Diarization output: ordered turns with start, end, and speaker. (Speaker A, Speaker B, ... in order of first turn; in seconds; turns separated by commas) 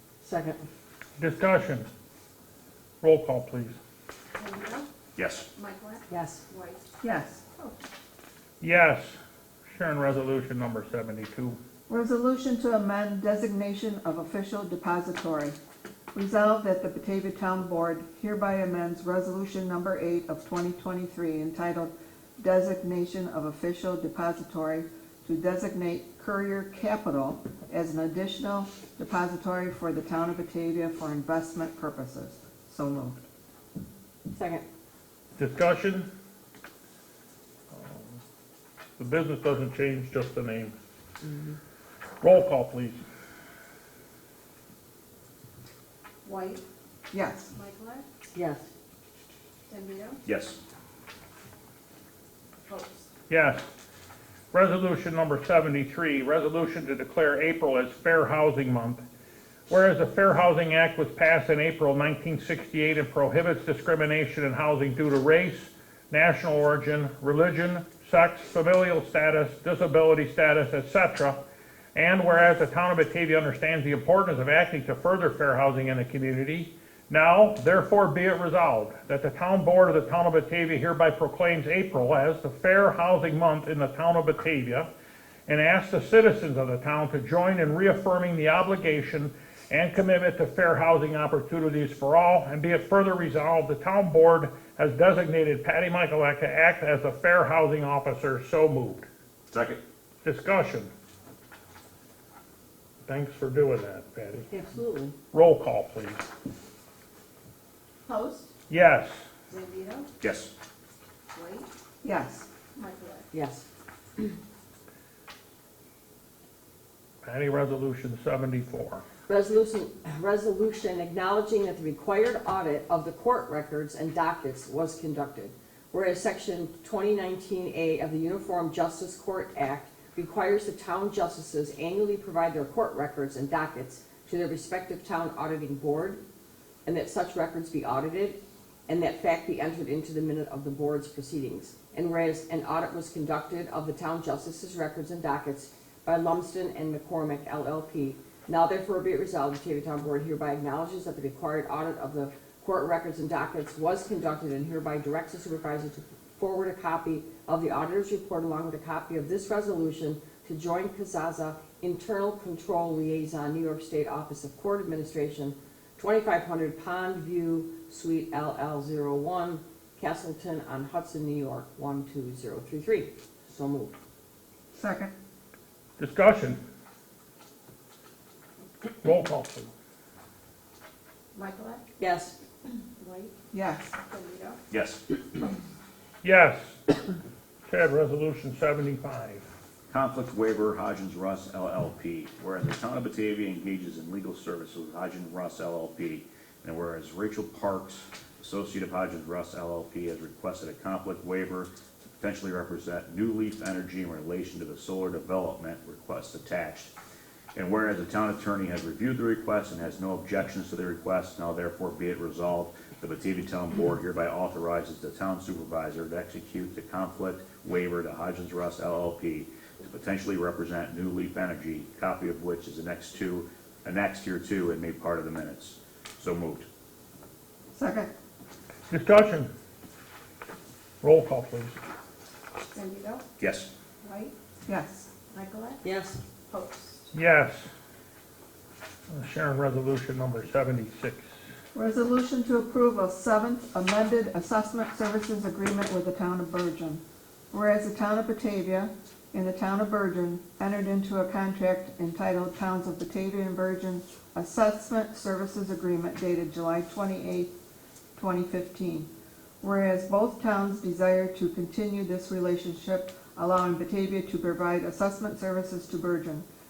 Speaker A: 0.2-0.6, Speaker B: 1.2-1.9, Speaker B: 3.0-3.8, Speaker C: 4.4-4.9, Speaker D: 5.2-5.5, Speaker C: 5.5-6.9, Speaker A: 6.1-6.4, Speaker E: 7.0-7.4, Speaker B: 8.6-11.6, Speaker E: 11.9-15.6, Speaker E: 16.1-33.2, Speaker A: 34.3-34.6, Speaker B: 35.4-36.1, Speaker B: 37.7-38.1, Speaker B: 39.0-40.7, Speaker A: 41.2-41.6, Speaker B: 42.2-43.0, Speaker C: 46.2-46.6, Speaker E: 47.1-47.5, Speaker C: 47.5-48.1, Speaker A: 48.3-48.7, Speaker C: 49.7-50.2, Speaker D: 50.3-50.6, Speaker C: 52.7-53.1, Speaker B: 53.3-53.7, Speaker B: 54.5-59.0, Speaker B: 59.7-71.4, Speaker B: 72.0-84.9, Speaker B: 85.5-99.1, Speaker D: 99.5-99.8, Speaker B: 100.2-100.9, Speaker B: 103.1-104.5, Speaker A: 104.5-105.2, Speaker B: 105.3-106.2, Speaker C: 108.1-108.5, Speaker B: 108.7-109.2, Speaker C: 109.5-110.1, Speaker D: 110.2-110.5, Speaker C: 111.3-111.7, Speaker E: 112.0-112.5, Speaker C: 112.7-113.3, Speaker A: 113.3-113.7, Speaker B: 117.2-119.0, Speaker A: 119.3-136.2, Speaker A: 136.8-173.9, Speaker E: 174.8-175.1, Speaker B: 176.0-176.6, Speaker B: 179.0-179.7, Speaker C: 181.3-181.8, Speaker A: 182.0-182.4, Speaker C: 182.9-183.3, Speaker E: 183.5-184.0, Speaker C: 184.0-184.6, Speaker D: 184.7-185.5, Speaker B: 186.2-187.0, Speaker B: 187.7-189.4, Speaker D: 189.9-206.9, Speaker D: 207.6-226.7, Speaker E: 227.7-228.1, Speaker B: 228.9-229.5, Speaker B: 231.0-231.8, Speaker C: 232.7-233.2, Speaker D: 233.4-233.7, Speaker C: 234.0-234.3, Speaker E: 234.7-235.1, Speaker C: 235.3-235.8, Speaker A: 235.8-236.2, Speaker C: 236.5-237.1, Speaker B: 237.1-237.7, Speaker B: 239.1-241.3, Speaker E: 241.7-257.5, Speaker E: 258.2-259.1, Speaker E: 259.6-266.5